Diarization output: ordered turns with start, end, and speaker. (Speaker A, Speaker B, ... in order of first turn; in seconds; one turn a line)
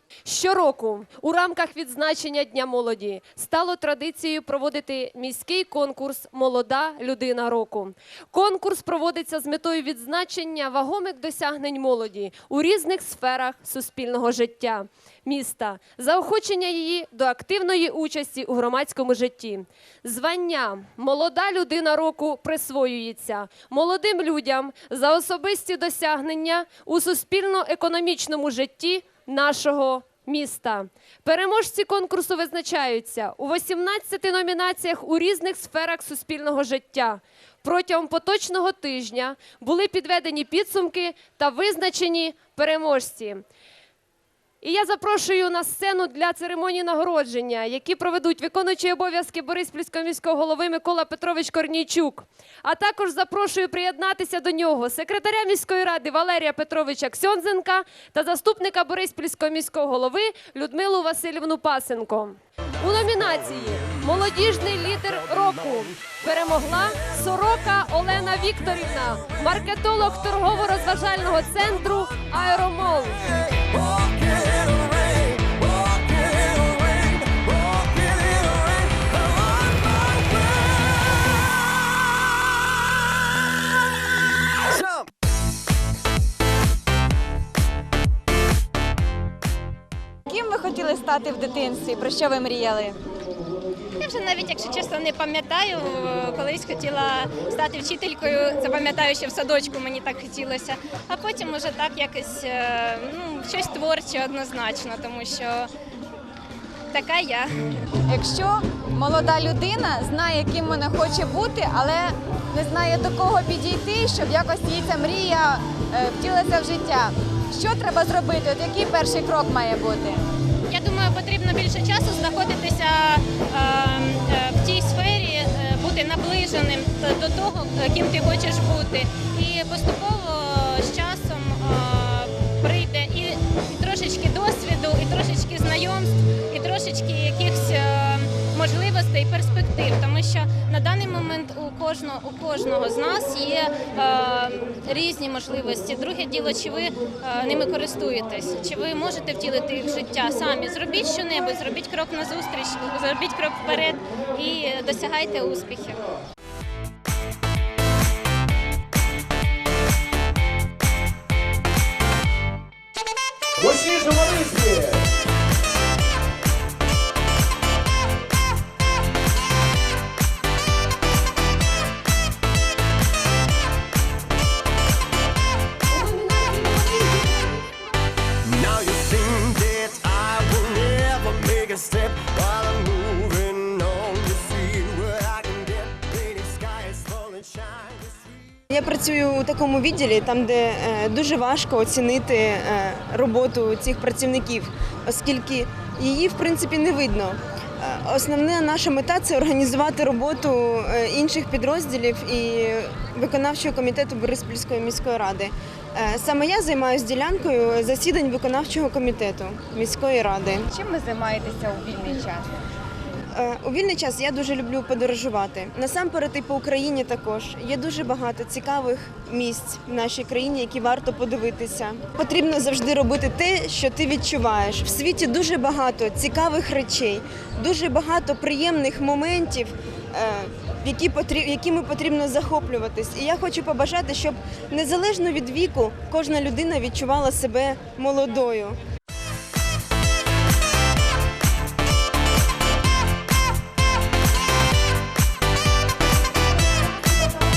Speaker A: 0.2-43.4
Speaker A: 44.6-73.5
Speaker B: 90.3-93.0
Speaker C: 94.0-105.7
Speaker C: 106.9-107.6
Speaker B: 108.1-120.2
Speaker C: 120.7-156.0
Speaker D: 163.6-165.0
Speaker A: 176.0-177.2
Speaker D: 178.6-188.0
Speaker E: 188.7-210.6
Speaker B: 210.7-212.5
Speaker E: 213.3-238.8